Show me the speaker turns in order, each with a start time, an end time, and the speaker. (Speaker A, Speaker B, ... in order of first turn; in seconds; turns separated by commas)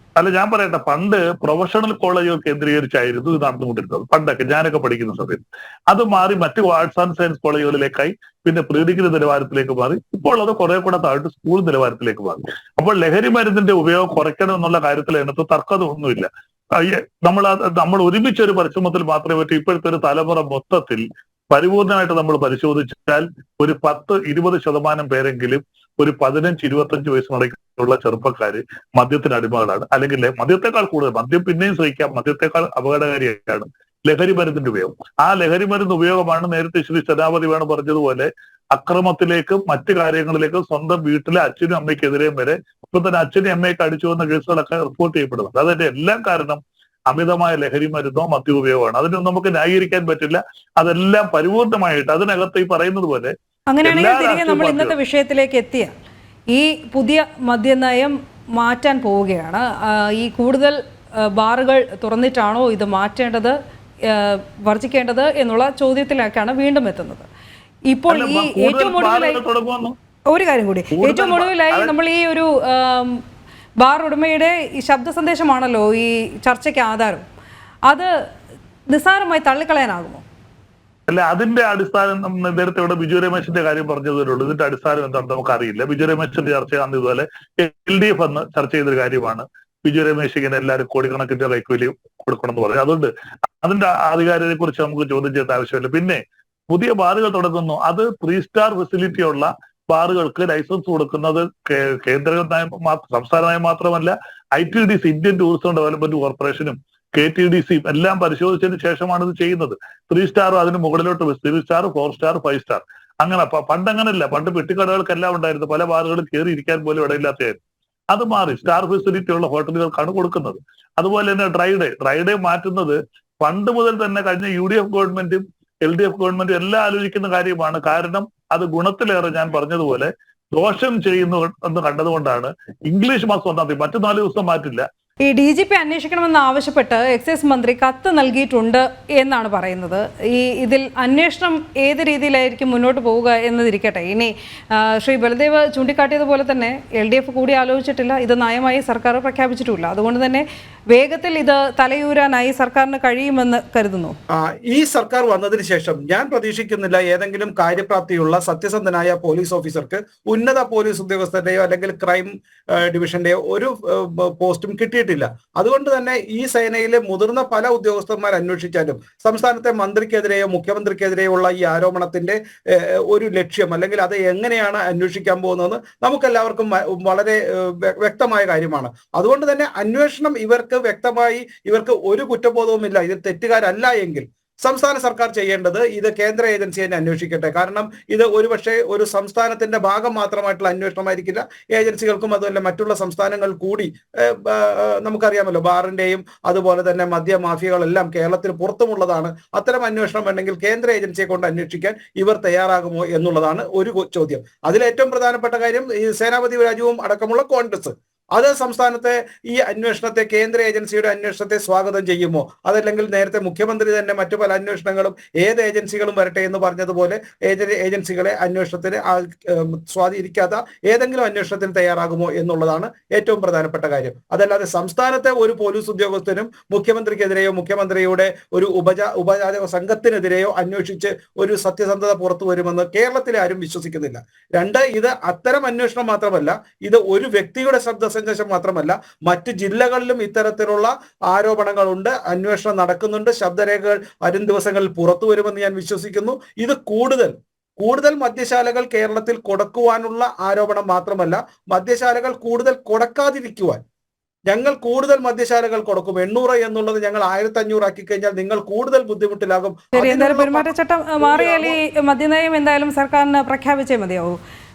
Speaker A: 0.2-54.9, Speaker B: 53.7-55.9, Speaker B: 56.5-63.6, Speaker B: 64.1-67.3, Speaker B: 67.9-69.4, Speaker A: 68.1-70.0, Speaker B: 70.3-73.2, Speaker A: 70.9-71.9, Speaker B: 73.8-77.3, Speaker B: 78.9-80.2, Speaker A: 81.1-93.1, Speaker A: 93.6-117.6, Speaker A: 118.1-134.9, Speaker B: 135.2-154.2, Speaker C: 154.3-253.8, Speaker C: 254.5-260.7, Speaker B: 259.9-264.4, Speaker C: 261.2-261.8